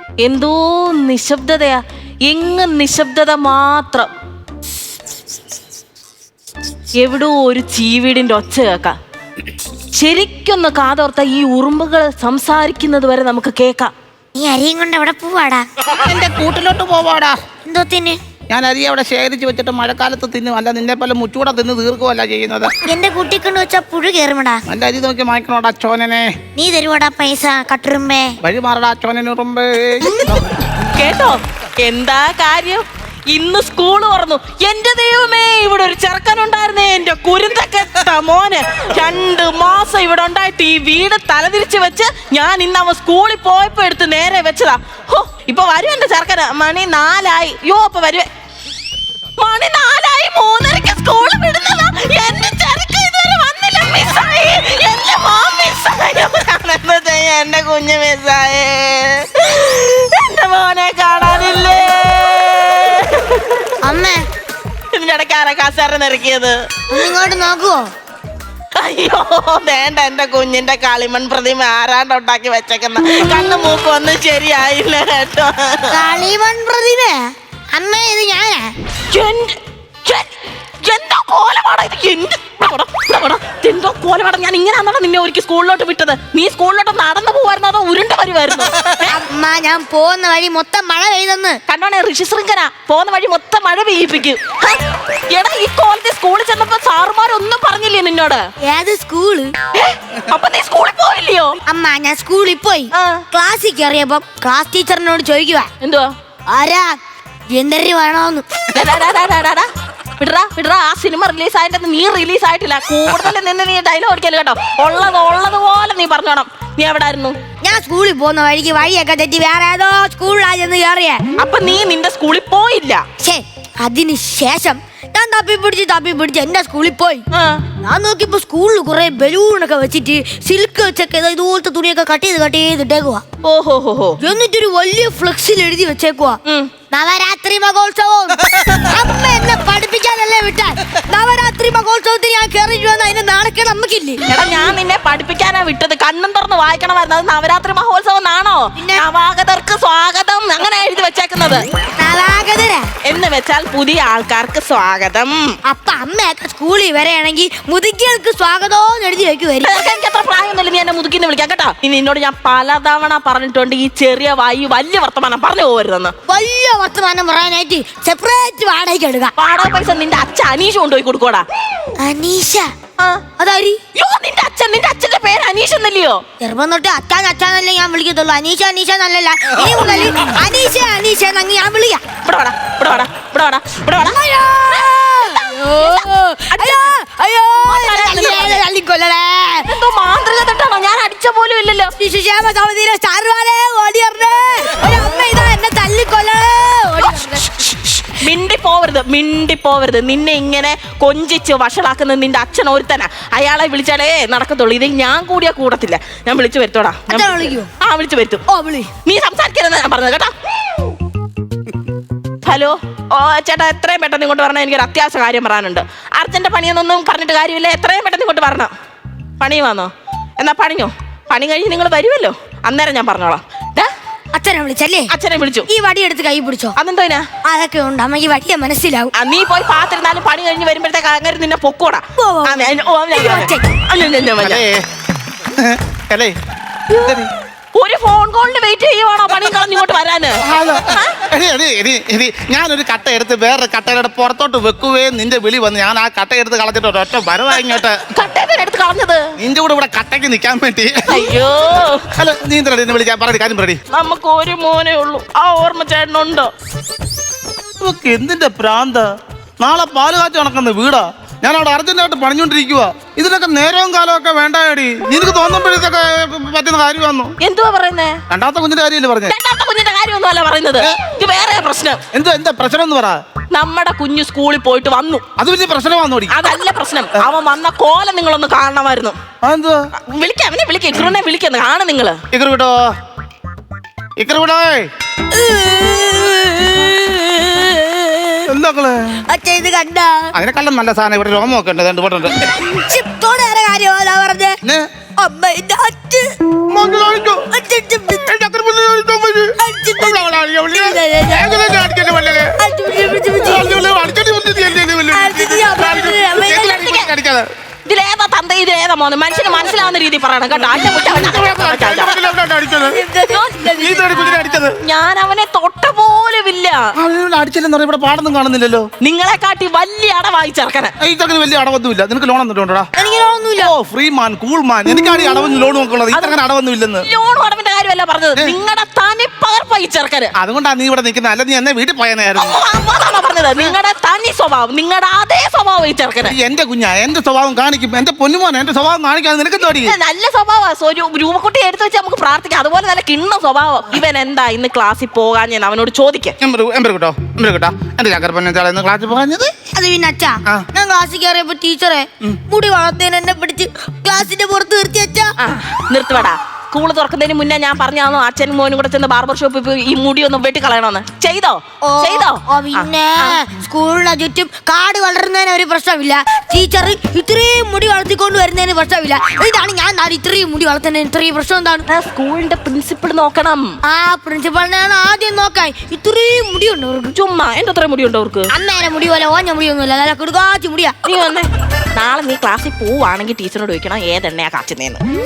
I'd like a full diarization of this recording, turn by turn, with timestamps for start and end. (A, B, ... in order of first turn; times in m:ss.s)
0:00.2-0:04.1 A
0:07.0-0:09.0 A
0:09.9-0:13.9 A
0:14.4-0:15.7 B
0:15.8-0:17.4 C
0:17.6-0:18.2 B
0:18.5-0:22.7 C
0:22.8-0:24.6 B
0:24.7-0:26.4 C
0:26.6-0:28.4 B
0:28.4-0:30.5 C
0:30.9-0:48.3 A
0:49.4-1:03.8 A
1:03.8-1:04.2 B
1:04.9-1:06.6 A
1:06.9-1:07.9 B
1:08.7-1:16.0 A
1:15.9-1:18.7 B
1:19.1-1:29.2 A
1:29.1-1:31.6 B
1:31.7-1:38.4 A
1:38.6-1:39.5 B
1:39.7-1:41.6 A
1:41.7-1:45.7 B
1:42.9-1:43.2 A
1:45.8-1:46.1 A
1:46.5-1:47.0 B
1:47.5-1:48.4 B
1:48.7-1:57.4 A
1:57.6-2:01.2 B
2:01.4-2:03.0 A
2:03.2-2:07.2 B
2:07.3-2:07.6 A
2:07.8-2:13.2 B
2:13.4-2:14.2 A
2:14.2-2:16.4 B
2:16.4-2:16.7 A
2:16.9-2:24.2 B
2:24.3-2:31.6 A
2:28.8-2:29.0 B
2:32.0-2:32.9 B
2:33.0-2:35.6 A
2:35.7-2:39.8 B
2:39.6-2:46.1 A
2:46.3-2:49.3 B
2:49.4-2:51.4 A
2:52.0-2:52.7 B
2:53.0-2:53.2 A
2:53.4-2:53.8 B
2:53.9-2:56.2 A
2:56.4-3:02.0 B
3:02.2-3:04.2 A
3:04.0-3:09.7 B
3:04.7-3:07.0 A
3:07.6-3:08.6 A
3:09.7-3:11.9 A
3:12.0-3:18.0 B
3:18.1-3:28.4 A
3:27.1-3:27.7 B
3:28.5-3:28.9 B
3:29.0-3:30.3 A
3:32.4-3:38.7 A
3:39.4-3:43.9 A
3:44.3-3:45.1 B
3:45.1-3:45.7 A
3:45.7-3:46.7 B
3:46.8-3:47.2 A
3:47.5-3:49.1 B
3:49.1-3:54.6 A
3:52.2-3:53.7 B
3:54.4-3:54.8 C
3:55.5-3:56.4 C
3:56.9-3:57.3 C
3:57.7-4:01.2 A
4:00.4-4:08.0 C
4:08.1-4:09.3 A
4:09.4-4:11.3 C
4:11.1-4:12.0 A
4:12.2-4:13.8 C
4:13.9-4:16.5 A
4:17.8-4:19.1 C
4:19.6-4:27.4 C
4:27.4-4:28.2 A
4:28.3-4:29.3 C
4:29.3-4:32.0 A
4:32.1-4:33.2 C
4:33.5-4:35.2 A
4:35.4-4:36.3 C
4:36.3-4:39.2 A
4:39.4-4:39.8 C
4:40.0-4:42.2 A
4:42.3-4:42.8 C
4:44.2-4:44.9 C
4:45.3-4:48.5 B
4:48.5-4:49.2 C
4:49.3-4:50.3 B
4:50.3-4:52.5 C
4:52.6-4:54.6 B
4:55.2-4:56.3 B
4:56.7-4:57.4 C
4:57.5-4:58.3 B
4:58.2-5:02.6 C
4:59.6-5:01.7 B
5:02.6-5:04.0 B
5:03.4-5:07.5 C
5:05.1-5:07.0 B
5:07.8-5:12.2 A
5:10.7-5:13.0 C
5:12.9-5:14.4 B
5:13.7-5:14.8 C
5:14.8-5:16.9 A
5:17.0-5:18.8 C
5:19.0-5:20.9 A
5:21.0-5:22.9 C
5:23.0-5:23.7 B
5:23.6-5:27.1 C
5:26.1-5:26.4 A
5:27.0-5:30.3 A
5:30.4-5:32.6 C
5:32.4-5:36.4 A
5:36.2-5:39.9 C
5:39.7-5:46.4 A
5:46.4-5:49.6 C
5:49.7-5:55.3 B
5:55.4-6:03.4 A
6:01.8-6:11.9 B
6:11.9-6:13.8 A
6:13.9-6:17.2 B
6:17.1-6:18.5 A
6:18.5-6:21.0 B
6:21.0-6:25.0 A